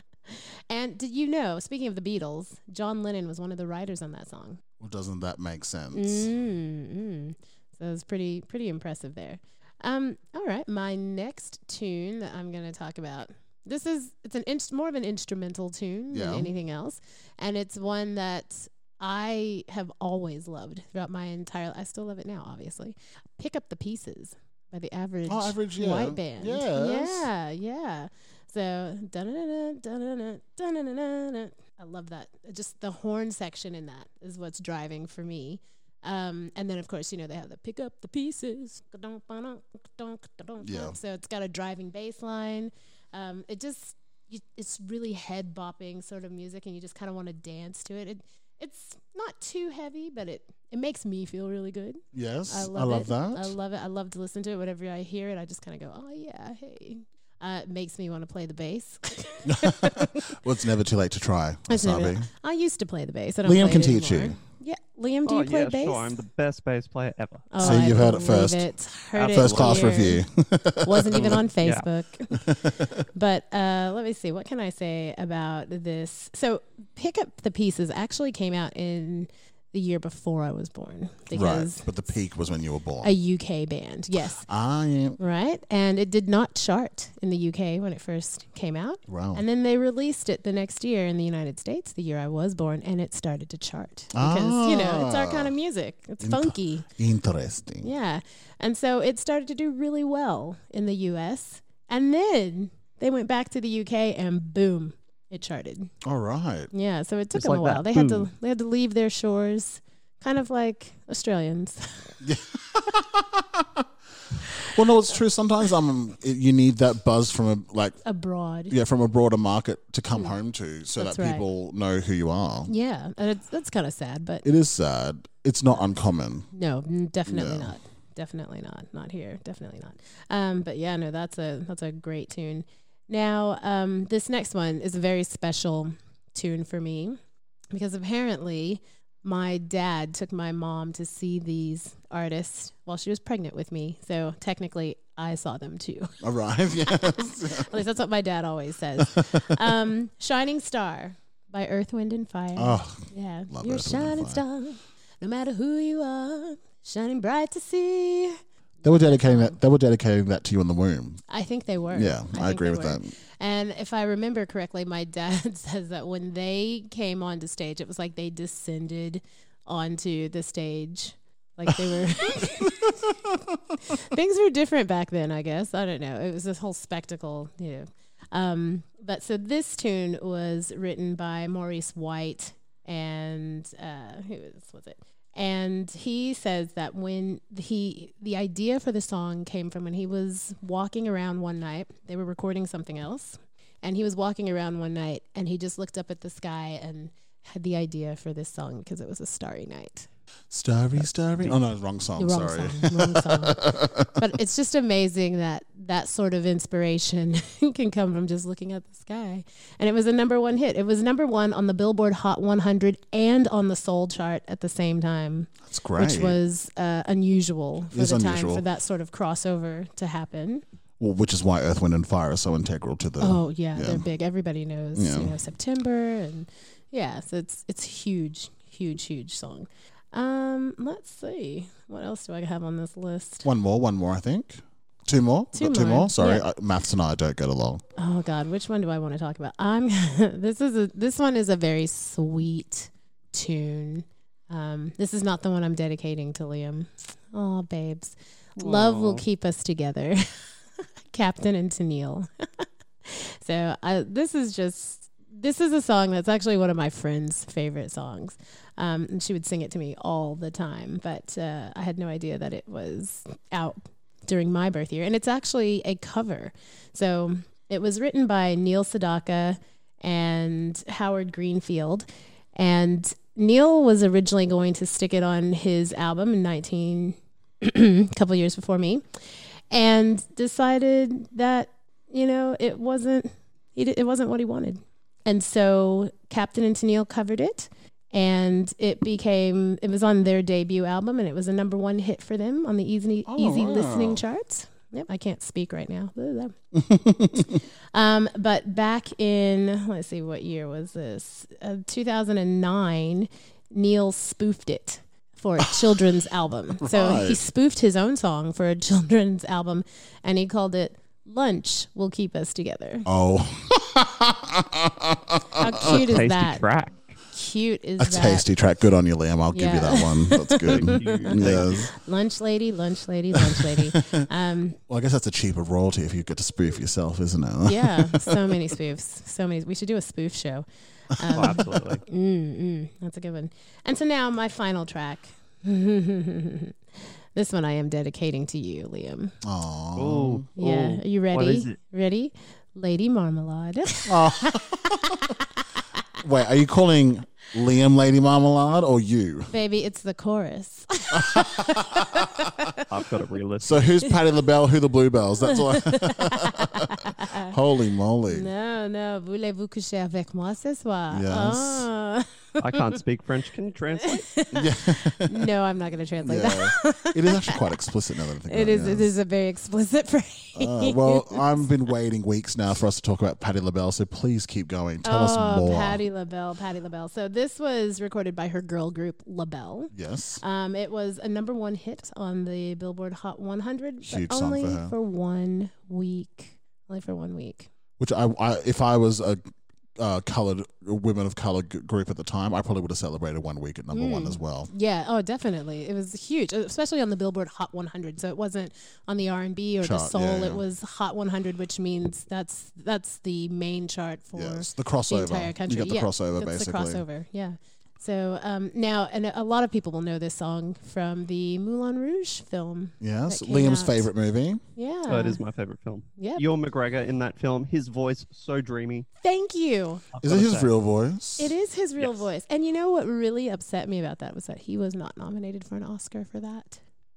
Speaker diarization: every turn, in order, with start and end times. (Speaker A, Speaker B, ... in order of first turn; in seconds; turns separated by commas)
Speaker A: 0.3-4.6, Speaker B: 4.8-6.3, Speaker A: 5.9-60.3, Speaker B: 16.1-16.5, Speaker B: 25.2-27.3, Speaker B: 40.6-41.0, Speaker B: 52.1-53.5, Speaker B: 59.5-62.3, Speaker A: 61.7-66.1, Speaker B: 63.4-64.4, Speaker C: 65.2-67.9, Speaker A: 67.5-70.2, Speaker B: 67.6-71.4, Speaker C: 69.2-70.1, Speaker A: 70.8-72.4, Speaker C: 71.1-71.8, Speaker B: 72.3-73.0, Speaker A: 73.1-81.8, Speaker B: 81.3-83.1, Speaker A: 83.0-84.5, Speaker B: 84.5-85.2, Speaker A: 85.2-96.9, Speaker B: 89.1-89.4, Speaker B: 94.1-95.5, Speaker B: 96.2-97.9, Speaker A: 97.8-105.9, Speaker B: 106.0-106.7, Speaker A: 106.7-112.1, Speaker C: 107.3-108.3, Speaker B: 112.2-113.9, Speaker B: 114.6-118.0, Speaker A: 118.0-118.7, Speaker B: 118.7-122.7, Speaker A: 121.0-121.5, Speaker A: 122.7-124.5, Speaker B: 124.4-126.5, Speaker A: 126.5-137.2, Speaker B: 127.3-127.8, Speaker A: 137.7-146.1, Speaker B: 146.2-147.8, Speaker A: 146.9-159.6, Speaker B: 149.0-149.7, Speaker B: 152.6-154.4, Speaker B: 158.8-161.2, Speaker A: 161.3-173.1, Speaker B: 161.9-163.1, Speaker B: 171.8-173.1, Speaker A: 173.9-200.1, Speaker B: 200.5-204.1, Speaker A: 202.2-220.6, Speaker B: 215.7-216.4, Speaker B: 217.9-218.6, Speaker B: 221.0-224.0, Speaker A: 223.2-233.4, Speaker B: 224.9-225.4, Speaker B: 233.4-237.8, Speaker A: 235.5-236.4, Speaker A: 238.0-250.5, Speaker C: 248.6-249.2, Speaker A: 251.1-296.5, Speaker B: 293.3-294.2, Speaker B: 296.7-297.6, Speaker A: 297.9-313.1, Speaker B: 305.6-306.0, Speaker B: 306.8-307.4, Speaker B: 313.1-316.3, Speaker A: 315.6-316.6, Speaker C: 315.8-317.1, Speaker A: 317.3-318.4, Speaker B: 318.0-321.9, Speaker A: 319.5-324.8, Speaker C: 320.7-321.9, Speaker B: 323.3-324.2, Speaker B: 324.9-328.6, Speaker A: 327.6-336.8, Speaker B: 331.2-331.6, Speaker C: 331.3-332.0, Speaker A: 337.3-339.3, Speaker B: 339.4-340.4, Speaker C: 339.9-341.8, Speaker A: 340.6-344.6, Speaker B: 344.1-345.0, Speaker B: 346.2-349.5, Speaker A: 349.5-352.8, Speaker B: 351.1-352.4, Speaker C: 352.9-353.9, Speaker B: 353.6-356.8, Speaker A: 355.5-357.5, Speaker B: 357.5-358.5, Speaker A: 358.3-362.3, Speaker B: 361.1-361.9, Speaker C: 362.6-364.3, Speaker A: 364.1-367.6, Speaker B: 364.5-365.4, Speaker B: 366.2-369.1, Speaker A: 368.5-371.6, Speaker B: 370.6-376.0, Speaker A: 375.0-387.7, Speaker B: 379.9-380.4, Speaker B: 384.0-384.9, Speaker B: 388.0-389.5, Speaker B: 390.0-394.7, Speaker A: 393.9-414.1, Speaker B: 399.8-400.6, Speaker B: 404.3-407.0, Speaker B: 413.0-414.6, Speaker A: 414.8-415.4, Speaker C: 415.1-419.1, Speaker A: 416.2-416.4, Speaker A: 419.2-420.1, Speaker C: 420.1-420.7, Speaker B: 420.2-421.5, Speaker A: 421.4-426.8